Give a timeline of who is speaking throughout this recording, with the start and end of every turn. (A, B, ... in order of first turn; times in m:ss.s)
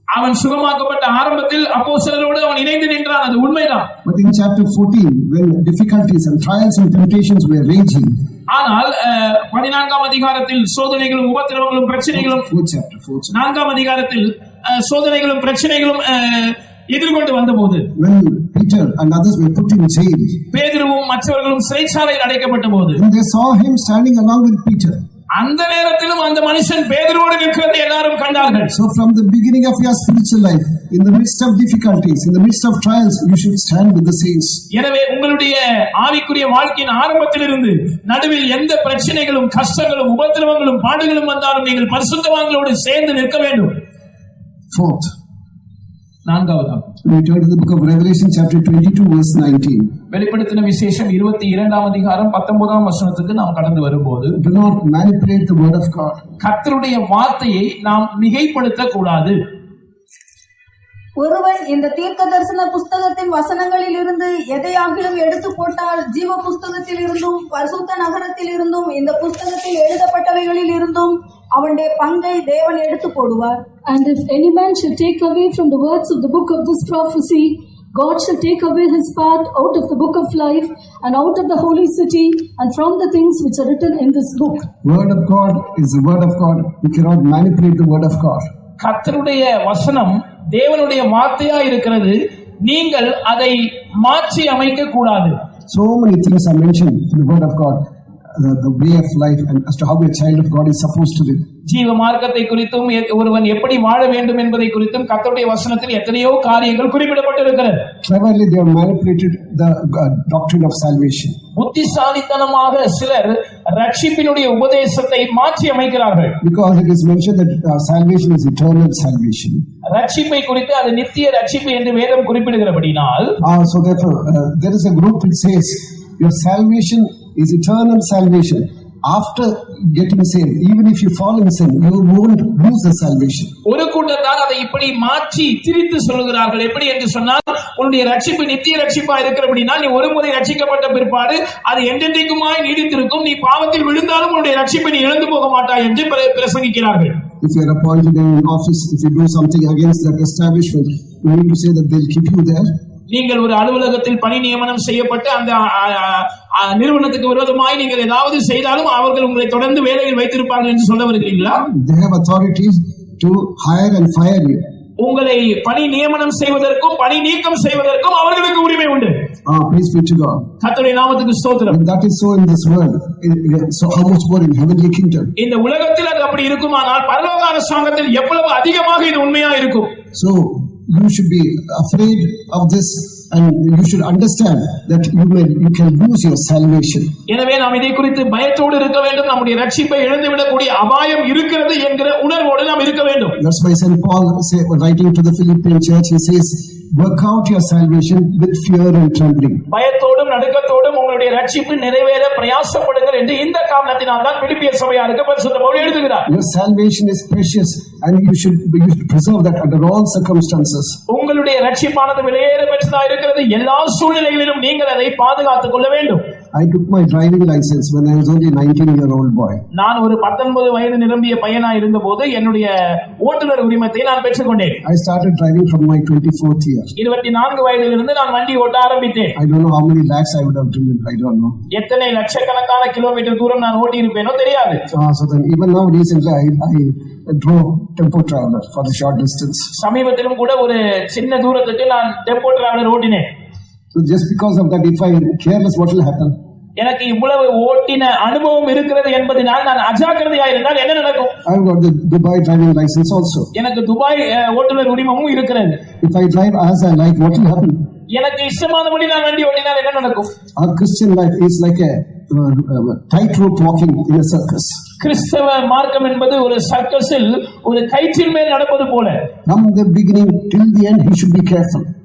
0:00.1-0:03.9 A
0:04.0-0:08.1 B
0:08.5-0:12.5 A
0:12.2-0:13.4 B
0:13.3-0:17.9 A
0:18.0-0:20.4 B
0:20.5-0:23.0 A
0:23.0-0:25.0 B
0:25.4-0:28.7 A
0:28.7-0:34.6 B
0:34.7-0:43.7 A
0:44.7-0:45.1 B
0:46.3-0:46.9 A
0:47.0-0:49.9 B
0:50.1-0:54.4 A
0:54.4-0:56.2 B
0:56.4-0:59.4 A
1:01.2-1:13.6 C
1:13.9-1:24.7 D
1:24.8-1:28.4 B
1:28.8-1:35.4 A
1:35.7-1:41.4 B
1:41.7-1:47.8 A
1:48.0-1:51.4 B
1:51.6-1:56.4 A
1:56.4-1:59.6 B
1:59.9-2:03.4 A
2:03.4-2:13.5 B
2:13.7-2:27.2 A
2:27.4-2:32.7 B
2:33.1-2:41.6 A
2:41.6-2:44.6 B
2:45.0-2:49.2 A
2:49.5-2:50.4 B
2:50.6-2:51.8 A
2:51.7-2:55.3 B
2:55.4-2:59.9 A
3:00.2-3:07.1 B
3:07.3-3:13.4 A
3:13.4-3:19.6 B
3:19.7-3:26.3 A
3:26.3-3:31.0 B
3:31.1-3:36.2 A
3:36.5-3:39.6 B
3:39.7-3:44.8 A
3:44.8-3:46.9 B
3:47.0-3:49.4 A
3:49.4-3:51.6 B
3:51.7-3:54.8 A
3:54.9-3:59.7 B
3:59.8-4:03.3 A
4:03.9-4:06.4 B
4:06.8-4:11.4 A
4:11.5-4:13.5 B
4:13.6-4:15.8 A
4:16.0-4:17.8 B
4:18.1-4:20.3 A
4:20.6-4:24.8 B
4:25.0-4:29.3 A
4:29.5-4:31.9 B